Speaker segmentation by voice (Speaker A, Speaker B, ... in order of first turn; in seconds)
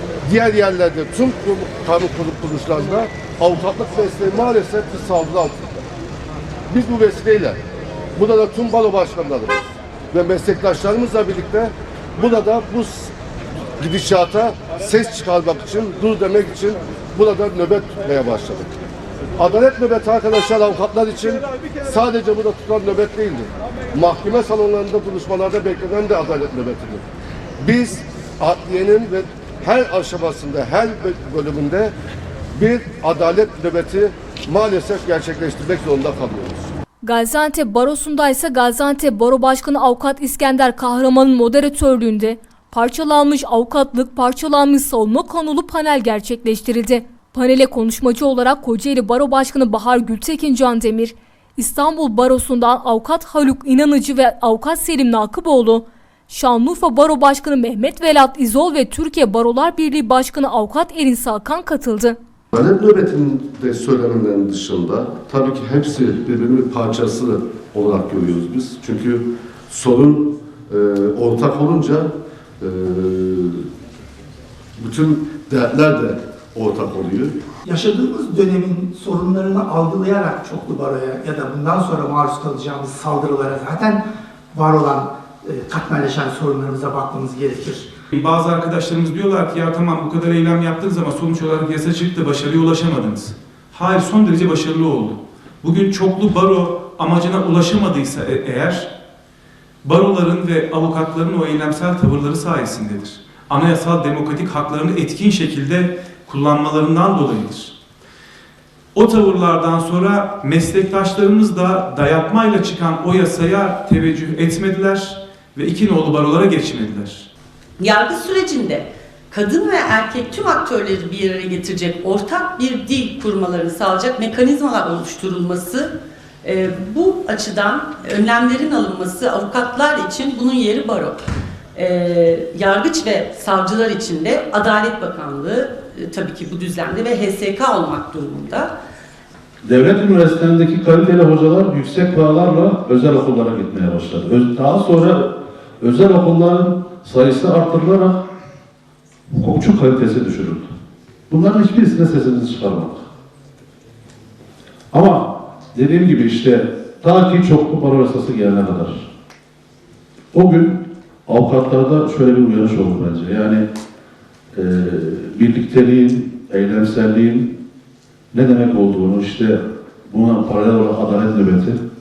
Speaker A: 0.2-5.8, 6.7-7.6, 8.2-13.1, 13.8-18.7, 19.4-27.0, 27.6-31.9, 32.5-36.7, 62.5-73.6, 74.8-77.3
Speaker B: 37.0-62.2
Speaker C: 77.7-87.9
Speaker D: 88.1-98.9, 99.8-107.8, 109.0-117.3
Speaker E: 117.8-125.9, 126.4-131.2, 131.7-138.7
Speaker F: 139.6-148.2, 149.4-150.7, 151.3-153.1, 154.9-159.1, 160.3-163.7, 164.5-167.6, 168.3-171.8